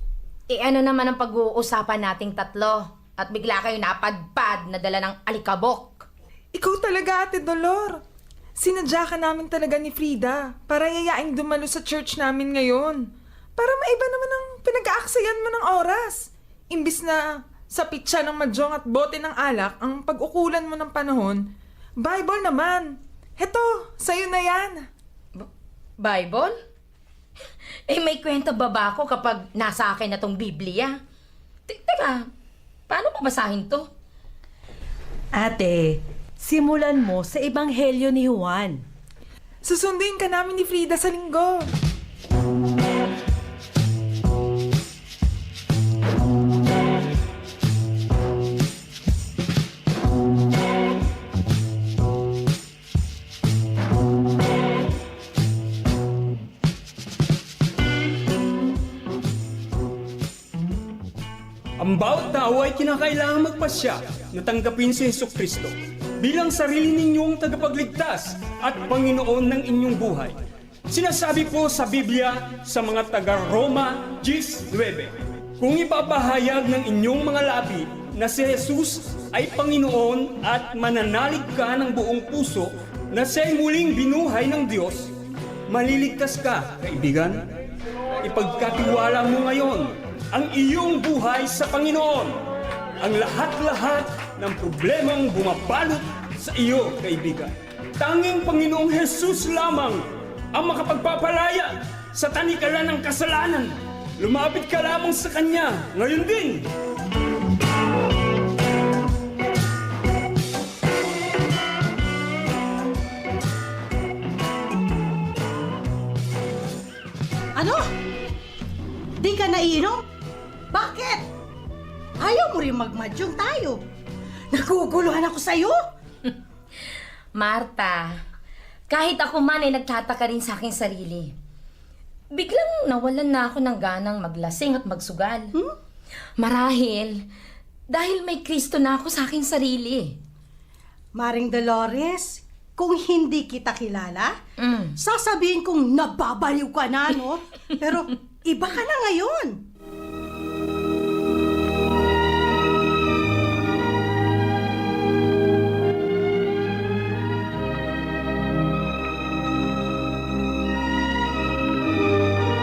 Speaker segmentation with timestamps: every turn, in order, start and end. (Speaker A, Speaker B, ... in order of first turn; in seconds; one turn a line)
Speaker A: 0.5-6.1
Speaker B: 6.5-8.0
Speaker B: 8.6-13.0
Speaker B: 13.6-21.4
Speaker B: 22.0-24.9
Speaker A: 26.0-26.5
Speaker A: 27.9-31.0
Speaker A: 31.7-32.2
Speaker A: 32.9-33.9
Speaker C: 35.3-38.8
Speaker B: 39.6-41.7
Speaker D: 61.8-70.4
Speaker D: 70.9-85.1
Speaker D: 85.7-87.5
Speaker D: 88.2-92.4
Speaker D: 93.0-106.7
Speaker E: 117.5-117.8
Speaker E: 119.2-120.0
Speaker E: 120.7-121.3
Speaker E: 122.2-123.8
Speaker E: 124.5-125.8
Speaker A: 127.4-128.1
Speaker A: 128.9-131.3
Speaker A: 132.3-135.5
Speaker A: 136.4-137.2
Speaker A: 137.9-140.2
Speaker E: 141.1-144.3
Speaker A: 144.6-144.9
Speaker E: 145.0-149.6